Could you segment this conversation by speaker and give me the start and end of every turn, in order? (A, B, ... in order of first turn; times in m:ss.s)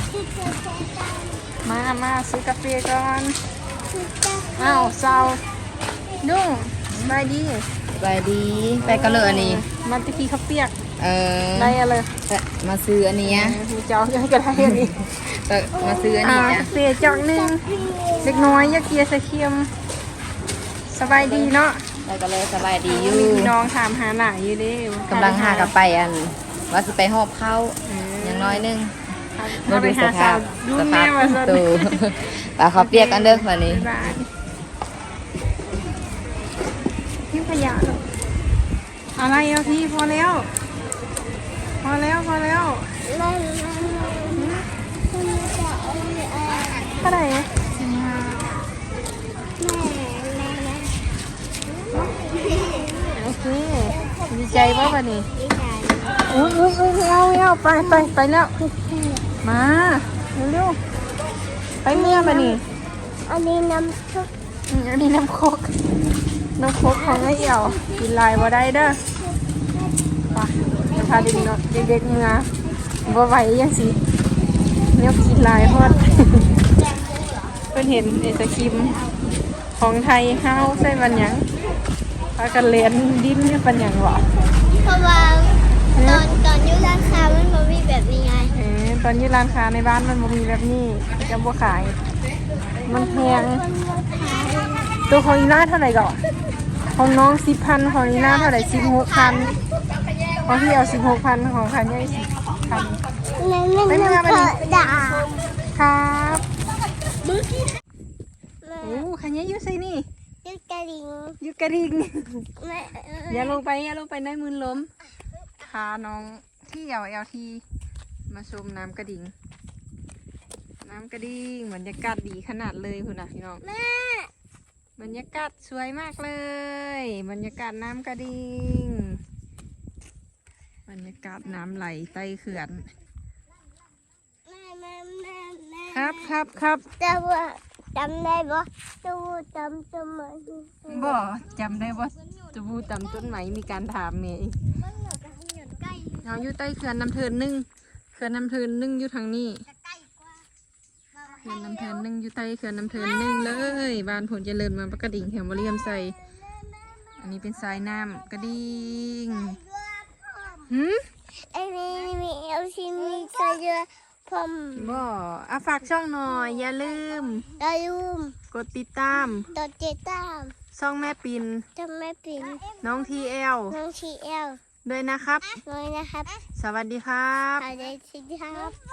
0:00.1-0:01.6 A
0:01.6-0:03.4 B
0:03.9-0:05.4 A
0:04.6-0:05.4 B
0:06.2-0:07.7 B
0:08.0-0:09.6 C
0:08.8-0:10.8 B
0:11.0-0:11.8 C
0:11.6-0:12.2 B
0:12.3-0:13.6 C
0:13.2-0:15.2 B
0:14.6-0:16.7 C
0:15.7-0:18.9 A
0:16.2-0:17.6 B
0:18.2-0:19.7 B
0:20.9-0:21.9 B
0:21.1-0:21.5 C
0:22.0-0:23.5 C
0:22.7-0:25.7 B
0:25.1-0:29.0 C
0:27.9-0:28.7 B
0:29.3-0:34.3 B
0:29.6-0:34.0 C
0:37.3-0:38.0 B
0:39.2-0:40.5 B
0:41.8-0:42.9 B
0:43.0-0:44.5 A
0:44.4-0:44.7 B
0:45.1-0:47.0 A
0:47.0-0:48.5 B
0:49.6-0:51.0 A
0:51.9-0:53.2 A
0:53.2-0:55.3 B
0:53.8-0:56.6 A
0:56.3-0:58.5 B
0:57.8-0:59.2 A
0:59.4-1:00.8 B
1:01.8-1:02.6 B
1:01.9-1:02.6 A
1:03.3-1:04.3 A
1:04.7-1:05.8 B
1:06.6-1:09.0 B
1:06.9-1:10.0 A
1:10.3-1:12.5 B
1:10.8-1:11.5 A
1:13.1-1:14.0 B
1:15.0-1:16.5 B
1:15.4-1:16.2 A
1:17.7-1:19.0 B
1:19.8-1:21.5 B
1:22.4-1:24.3 B
1:24.6-1:28.5 A
1:26.0-1:26.3 B
1:28.5-1:32.0 B
1:32.8-1:33.6 B
1:32.8-1:35.0 A
1:35.1-1:36.2 B
1:36.9-1:39.6 B
1:40.4-1:43.0 B
1:43.4-1:45.4 A
1:43.9-1:44.9 B
1:45.7-1:46.4 B
1:47.4-1:47.7 A
1:48.6-1:49.1 A
1:48.8-1:50.1 B
1:50.4-1:51.4 A
1:51.4-1:52.5 B
1:52.6-1:53.6 A
1:53.3-1:54.9 B
1:55.6-1:57.6 B
1:58.3-1:59.3 B
2:00.8-2:03.6 B
2:03.6-2:04.3 A
2:05.0-2:09.2 B
2:10.9-2:12.9 B
2:14.5-2:16.3 A
2:15.9-2:16.9 B
2:17.0-2:21.2 A
2:20.9-2:24.6 B
2:24.7-2:26.3 A
2:26.2-2:29.6 B
2:31.2-2:32.0 A
2:31.4-2:36.2 B
2:33.2-2:33.8 A
2:35.6-2:37.2 A
2:37.2-2:39.6 B
2:39.4-2:40.7 A
2:40.7-2:41.0 B
2:41.5-2:45.1 A
2:44.8-2:47.5 B
2:47.5-2:48.4 A
2:48.5-2:49.5 B
2:49.5-2:50.5 A
2:50.7-2:51.6 B
2:51.8-2:53.0 A
2:52.8-2:53.8 B
2:53.7-2:54.6 A
2:54.8-2:55.6 B
2:55.4-2:56.4 A
2:56.6-2:57.7 B
2:57.6-2:58.8 A